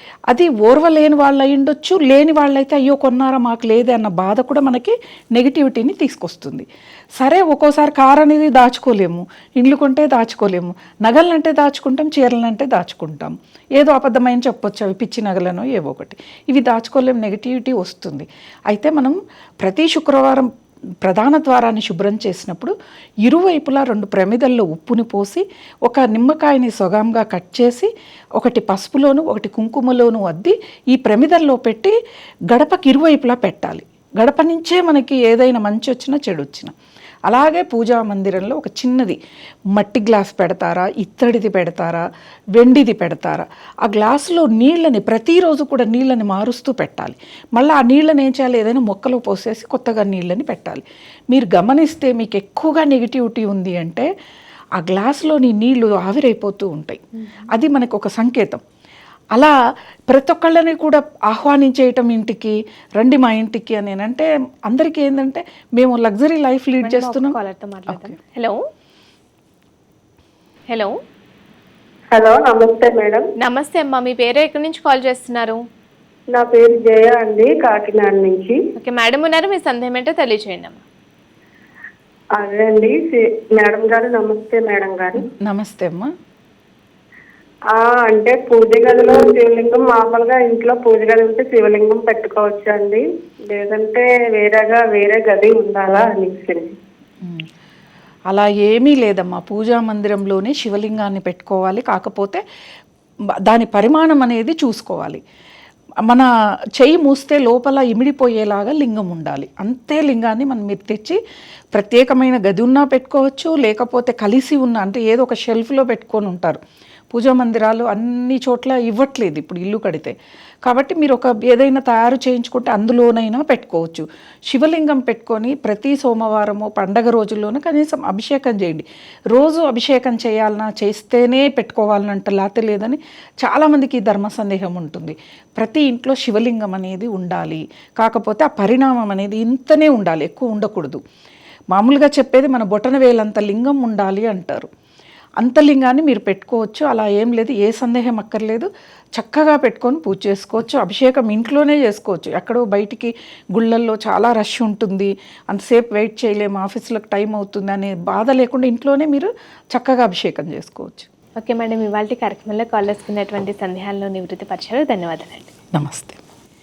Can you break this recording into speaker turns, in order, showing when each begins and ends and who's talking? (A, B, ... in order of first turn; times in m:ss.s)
0:00.3-0:20.5 A
0:21.0-0:32.0 A
0:32.5-0:36.7 A
0:37.3-0:39.2 A
0:39.7-0:54.1 A
0:54.8-0:58.6 A
1:00.1-1:07.4 A
1:06.8-1:08.6 B
1:07.9-1:08.2 A
1:12.1-1:13.2 C
1:13.4-1:15.6 B
1:16.3-1:18.6 C
1:18.8-1:20.8 B
1:22.4-1:25.3 C
1:25.2-1:26.1 A
1:27.7-1:36.7 C
1:37.2-1:37.5 A
1:38.3-1:42.4 A
1:43.4-1:45.2 A
1:46.1-1:51.2 A
1:51.7-2:21.0 A
2:21.7-2:24.7 A
2:25.4-2:41.1 A
2:41.4-2:45.5 B
2:45.8-2:46.2 A